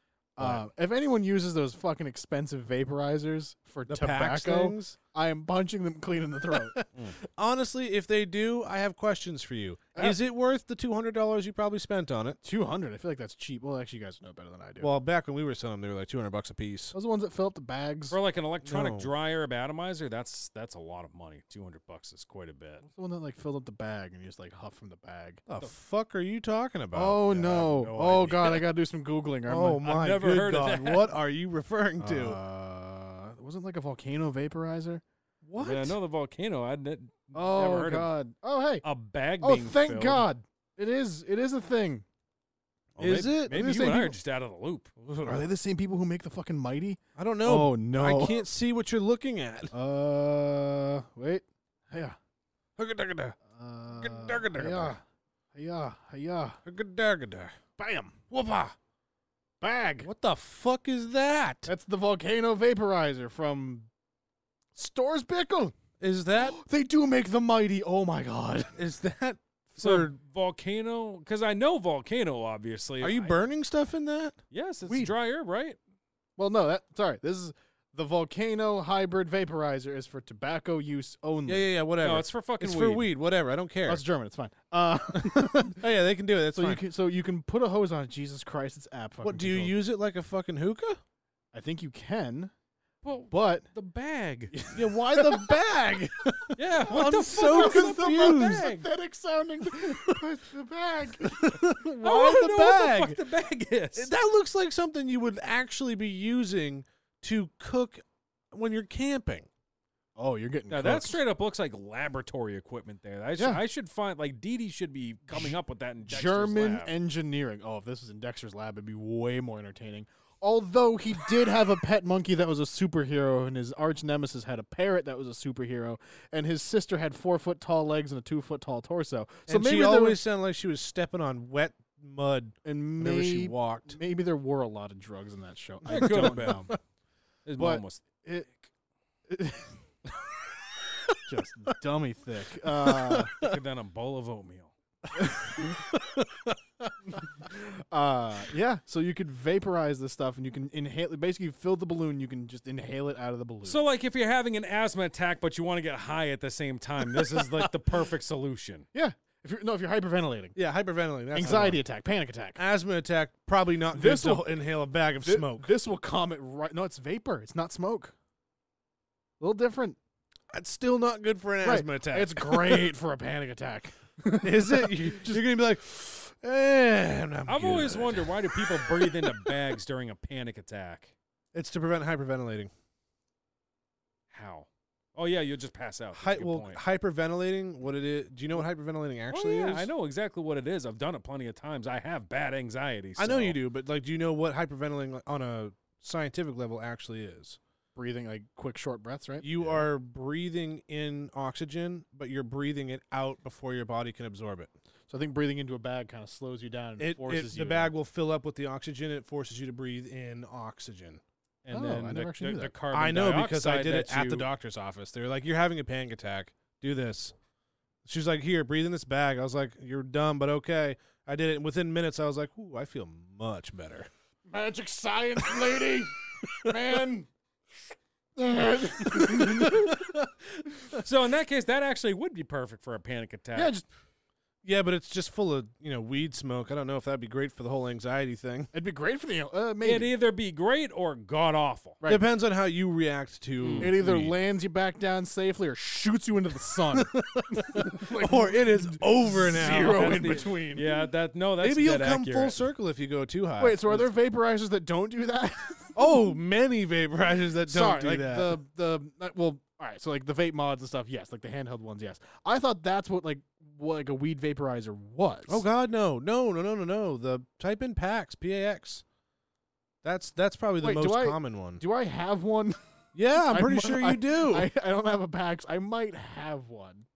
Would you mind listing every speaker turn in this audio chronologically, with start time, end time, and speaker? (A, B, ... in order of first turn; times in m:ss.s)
0:00.4-0:06.8 A
0:00.4-0:00.6 B
0:03.9-0:05.0 B
0:07.4-0:12.4 B
0:12.4-0:14.9 A
0:14.8-0:16.9 B
0:16.9-0:18.2 A
0:18.1-0:22.8 C
0:18.6-0:19.1 B
0:22.8-0:25.4 A
0:25.5-0:27.6 B
0:26.9-0:29.8 A
0:27.3-0:28.6 C
0:29.5-0:32.4 B
0:29.8-0:31.1 C
0:32.0-0:35.0 A
0:35.4-0:36.0 B
0:35.6-0:38.1 C
0:37.3-0:38.8 A
0:38.8-0:40.2 C
0:39.4-0:42.0 A
0:43.0-0:43.7 B
0:43.0-0:44.9 C
0:43.5-0:44.2 A
0:45.0-0:45.5 B
0:45.2-0:48.4 A
0:47.2-0:49.7 B
0:49.7-0:52.2 A
0:52.8-0:53.4 B
0:53.4-0:55.0 A
0:53.9-0:55.0 B
0:55.5-0:56.6 A
0:56.6-0:57.6 B
0:57.8-0:58.2 A
0:58.3-0:58.7 B
0:59.6-1:00.1 A
1:00.0-1:01.7 B
1:01.6-1:03.9 A
1:04.7-1:05.8 A
1:06.0-1:06.6 B
1:06.4-1:08.7 A
1:08.7-1:10.1 B
1:09.8-1:13.4 C
1:13.0-1:14.4 B
1:14.5-1:15.8 C
1:14.8-1:15.1 A
1:16.4-1:21.7 A
1:21.4-1:24.0 B
1:22.0-1:23.1 C
1:23.9-1:25.8 A
1:25.7-1:26.8 B
1:26.5-1:29.8 A
1:29.2-1:31.0 B
1:31.5-1:32.5 A
1:33.0-1:34.6 C
1:33.3-1:33.7 A
1:34.5-1:41.6 A
1:34.7-1:38.7 B
1:36.6-1:38.9 C
1:39.8-1:40.2 B
1:41.2-1:43.2 B
1:42.0-1:44.1 C
1:44.0-1:49.5 B
1:50.2-1:51.2 A
1:50.7-1:56.9 C
1:53.4-1:53.6 A
1:55.3-2:10.2 A
2:09.5-2:14.0 B
2:12.6-2:16.7 A
2:15.9-2:16.7 C
2:17.4-2:18.0 C
2:17.6-2:18.7 A
2:19.3-2:19.8 A
2:21.3-2:23.3 A
2:22.6-2:23.6 B
2:23.3-2:24.7 C
2:25.1-2:25.8 A
2:25.5-2:27.2 B
2:27.1-2:33.8 A
2:33.6-2:38.8 C
2:38.9-2:40.6 A
2:40.5-2:41.8 B
2:41.3-2:42.6 A
2:42.6-2:45.7 B
2:43.9-2:44.6 A
2:45.2-2:48.1 A
2:49.4-2:50.0 A
2:50.5-2:52.9 B
2:51.6-2:55.4 A
2:54.4-2:59.6 B
2:57.5-3:01.1 C
3:01.5-3:02.7 B
3:04.3-3:06.8 C
3:06.1-3:09.9 B
3:09.3-3:13.6 C
3:13.2-3:17.6 B
3:17.9-3:19.9 A
3:19.4-3:24.7 B
3:25.1-3:27.9 A
3:27.0-3:31.2 B
3:31.6-3:34.5 C
3:31.7-3:32.7 A
3:32.9-3:37.3 B
3:38.0-3:44.1 B
3:44.5-3:47.3 A
3:48.4-3:50.1 A
3:49.1-3:50.1 B
3:51.0-3:53.7 C
3:53.5-3:53.8 A
3:54.6-3:58.7 B
3:58.7-4:00.1 A
3:59.8-4:02.0 C
4:02.1-4:04.4 B
4:03.6-4:03.9 C
4:03.8-4:11.1 A
4:06.9-4:10.4 B
4:09.6-4:12.6 C
4:11.6-4:14.0 B
4:13.6-4:16.0 A
4:15.9-4:18.6 B
4:17.6-4:25.6 A
4:25.5-4:29.0 B
4:30.0-4:31.8 B
4:30.8-4:32.8 A
4:33.1-4:34.7 B
4:33.4-4:37.0 A